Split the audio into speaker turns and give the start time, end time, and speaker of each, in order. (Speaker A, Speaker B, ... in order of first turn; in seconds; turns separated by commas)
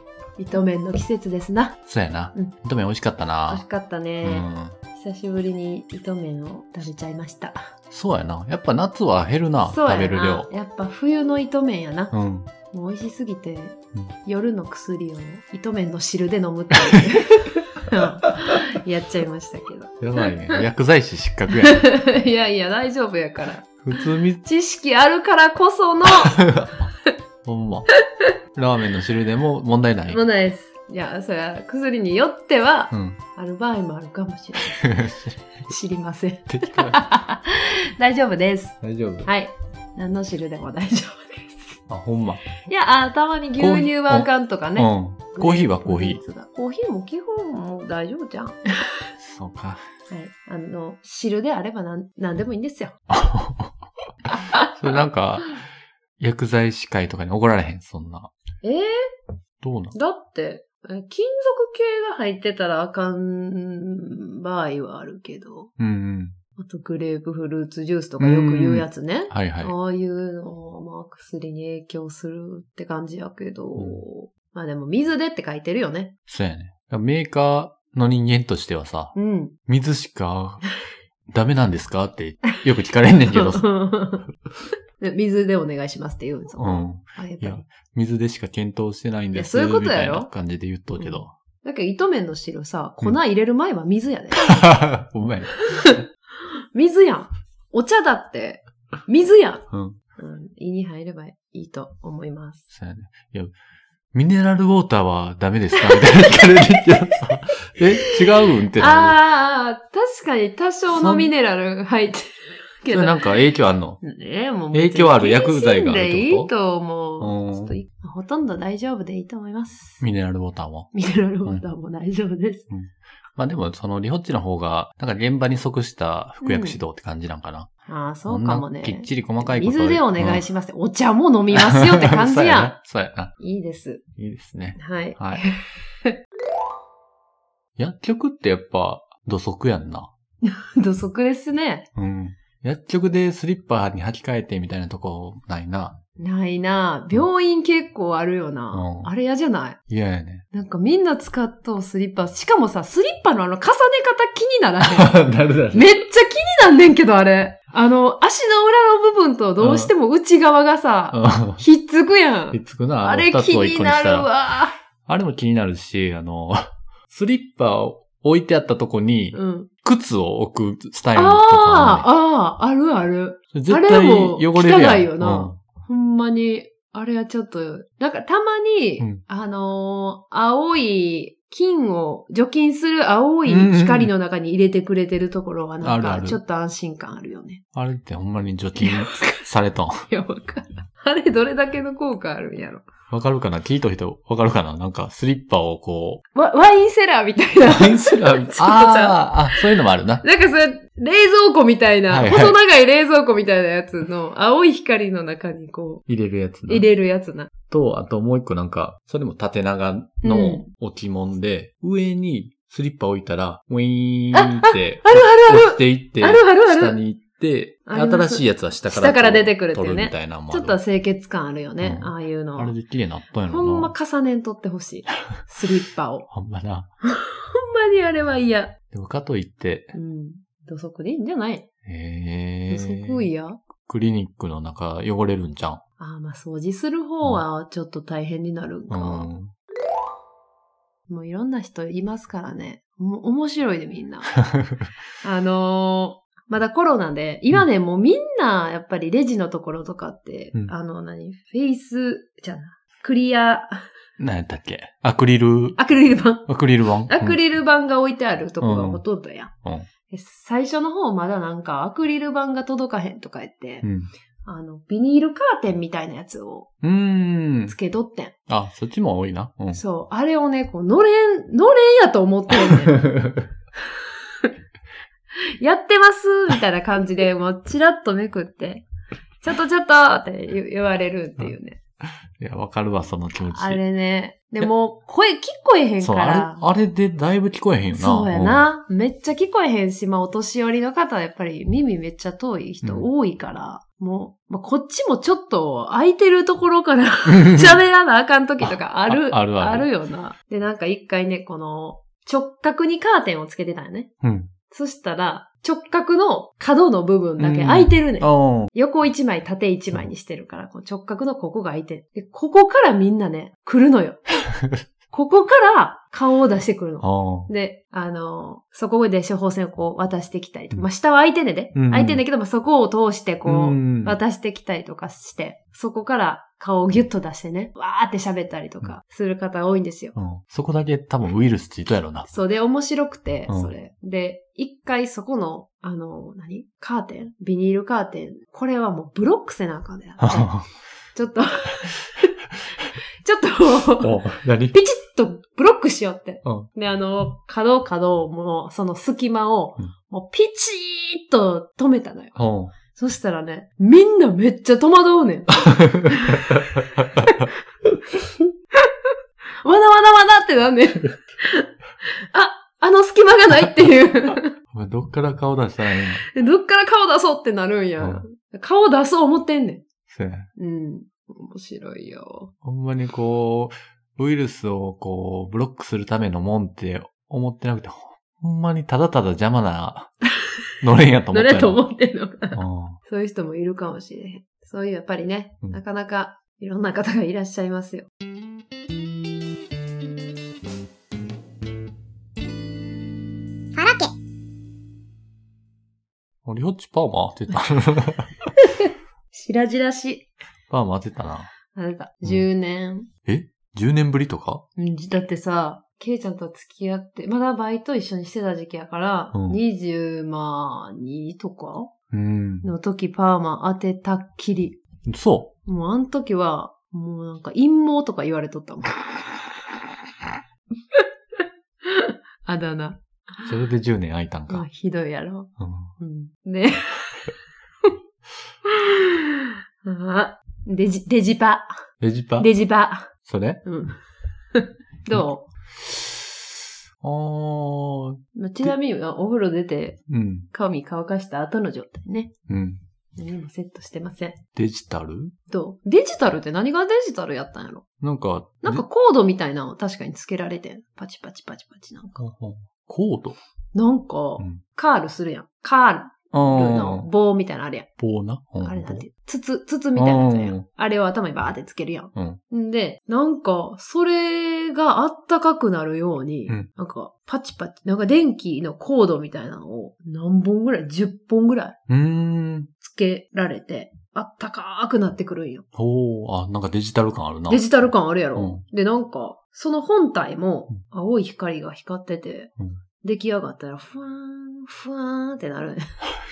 Speaker A: 0.4-1.8, Speaker B: 1.9-3.6, Speaker A: 3.5-7.7, Speaker B: 4.2-4.8, Speaker B: 7.9-10.5, Speaker A: 9.6-12.1, Speaker B: 12.1-12.5, Speaker A: 12.7-20.5, Speaker B: 20.0-21.9, Speaker A: 21.6-26.4, Speaker B: 23.8-24.4, Speaker B: 26.2-26.9, Speaker B: 27.4-27.9, Speaker B: 28.5-30.2, Speaker A: 30.1-35.0, Speaker B: 32.9-33.2, Speaker B: 34.8-35.3, Speaker A: 35.6-41.8, Speaker B: 36.5-37.0, Speaker B: 38.8-39.3, Speaker B: 41.9-42.6, Speaker A: 42.6-48.6, Speaker B: 43.6-46.2, Speaker B: 49.2-49.8, Speaker A: 50.1-53.0, Speaker B: 53.1-53.7, Speaker B: 54.7-55.6, Speaker B: 56.2-58.3, Speaker A: 58.6-58.9, Speaker B: 59.6-59.9, Speaker A: 59.9-65.7, Speaker B: 65.8-66.3, Speaker A: 66.5-76.1, Speaker B: 68.2-69.7, Speaker B: 73.8-74.0, Speaker B: 76.3-79.1, Speaker A: 79.1-79.5, Speaker B: 79.7-80.6, Speaker B: 81.3-83.7, Speaker A: 83.3-84.3, Speaker A: 85.0-87.7, Speaker B: 86.5-91.3, Speaker A: 89.3-90.3, Speaker A: 91.0-94.5, Speaker B: 94.3-96.0, Speaker A: 96.7-99.7, Speaker B: 99.7-100.0, Speaker A: 100.2-102.6, Speaker B: 102.7-103.5, Speaker B: 104.1-109.2, Speaker A: 108.4-113.4, Speaker B: 110.9-111.3, Speaker B: 112.9-114.0, Speaker A: 114.0-120.0, Speaker B: 114.7-116.5, Speaker B: 117.2-117.8, Speaker B: 120.0-120.9, Speaker A: 120.9-122.7, Speaker B: 122.7-127.7, Speaker A: 126.4-126.8, Speaker A: 127.9-132.8, Speaker B: 128.3-130.4, Speaker B: 131.5-133.3, Speaker A: 133.4-134.0, Speaker B: 134.2-135.4, Speaker A: 134.8-136.2, Speaker B: 137.8-140.1, Speaker A: 140.4-141.9, Speaker B: 141.9-146.0, Speaker A: 146.2-149.8, Speaker B: 148.7-149.1, Speaker B: 149.9-150.4, Speaker A: 150.5-155.2, Speaker B: 154.8-156.0, Speaker A: 155.7-164.7, Speaker B: 159.6-159.9, Speaker B: 161.1-161.6, Speaker B: 162.5-164.3, Speaker B: 165.1-172.1, Speaker A: 169.3-169.7, Speaker A: 171.1-187.6, Speaker B: 173.5-175.6, Speaker B: 183.5-184.1, Speaker B: 185.8-186.4, Speaker B: 187.7-190.0, Speaker A: 188.8-189.4, Speaker A: 190.1-192.8, Speaker B: 193.1-196.2, Speaker A: 196.3-206.1, Speaker B: 197.6-200.2, Speaker B: 202.1-202.6, Speaker B: 206.1-206.8, Speaker A: 206.7-207.5, Speaker B: 207.7-220.8, Speaker A: 210.2-210.7, Speaker A: 214.3-217.0, Speaker A: 217.9-222.8, Speaker B: 221.8-223.9, Speaker A: 223.5-226.3, Speaker B: 226.3-226.9, Speaker A: 227.0-228.8, Speaker B: 228.9-229.9, Speaker A: 229.9-231.7, Speaker B: 231.8-233.3, Speaker A: 232.7-233.6, Speaker B: 233.8-235.8, Speaker A: 236.0-239.3, Speaker B: 238.9-239.5, Speaker A: 241.1-244.4, Speaker A: 245.2-253.7, Speaker B: 254.2-255.8, Speaker A: 255.8-256.5, Speaker B: 256.5-257.4, Speaker A: 257.1-259.5, Speaker B: 258.6-259.0, Speaker A: 260.1-263.9, Speaker B: 263.8-264.1, Speaker A: 264.4-266.7, Speaker B: 266.8-267.7, Speaker A: 267.7-268.3, Speaker B: 268.5-269.8, Speaker A: 269.7-273.1, Speaker B: 272.6-273.5, Speaker A: 275.6-278.9, Speaker A: 279.4-281.8, Speaker B: 282.4-283.8, Speaker A: 283.5-286.7, Speaker B: 286.0-288.7, Speaker A: 287.9-304.1, Speaker B: 292.8-293.1, Speaker B: 297.3-297.8, Speaker B: 299.1-299.9, Speaker B: 304.2-304.5, Speaker A: 304.7-314.2, Speaker B: 307.4-308.7, Speaker A: 315.1-330.1, Speaker B: 317.0-317.5, Speaker B: 321.7-322.2, Speaker B: 323.4-324.2, Speaker B: 330.1-332.3, Speaker A: 332.2-340.5, Speaker B: 333.5-333.7, Speaker B: 340.2-340.7, Speaker A: 341.1-342.2, Speaker A: 343.2-352.4, Speaker B: 344.0-344.8, Speaker B: 352.4-352.7, Speaker A: 352.9-357.5, Speaker B: 355.6-357.0, Speaker A: 359.6-361.7, Speaker A: 362.3-364.5, Speaker B: 364.7-366.2, Speaker A: 366.2-369.8, Speaker B: 368.0-368.2, Speaker B: 370.1-370.5, Speaker A: 370.6-372.5, Speaker B: 372.6-380.1, Speaker B: 380.8-381.8, Speaker A: 381.3-388.1, Speaker B: 382.5-383.0, Speaker A: 393.8-394.0, Speaker B: 396.4-398.4, Speaker A: 398.6-400.3, Speaker B: 400.7-401.5, Speaker A: 401.7-403.1, Speaker B: 403.2-404.6, Speaker A: 404.8-411.9, Speaker B: 409.3-409.6, Speaker B: 412.1-412.7, Speaker A: 412.6-414.8, Speaker B: 415.1-415.5, Speaker A: 415.6-419.4, Speaker A: 421.9-423.4, Speaker B: 423.4-424.7, Speaker A: 424.5-427.4, Speaker B: 425.6-425.9, Speaker A: 428.7-429.1, Speaker A: 429.8-431.7, Speaker B: 432.0-432.5, Speaker A: 432.4-433.1, Speaker B: 433.2-433.6, Speaker A: 433.6-434.0, Speaker A: 434.5-435.5, Speaker B: 437.0-438.7, Speaker A: 438.3-442.3, Speaker B: 440.1-440.5, Speaker B: 442.5-442.8, Speaker A: 443.2-444.4, Speaker B: 444.5-445.3, Speaker A: 445.5-447.8, Speaker B: 448.0-448.8, Speaker A: 448.6-452.2, Speaker B: 452.2-453.4, Speaker A: 453.7-457.9, Speaker B: 456.3-457.1, Speaker B: 458.0-459.1, Speaker A: 458.6-471.8, Speaker B: 459.9-460.6, Speaker B: 462.1-462.4, Speaker B: 471.9-472.7, Speaker A: 472.8-475.6, Speaker B: 475.7-477.7, Speaker A: 477.5-482.5, Speaker B: 478.3-478.6, Speaker A: 483.0-485.8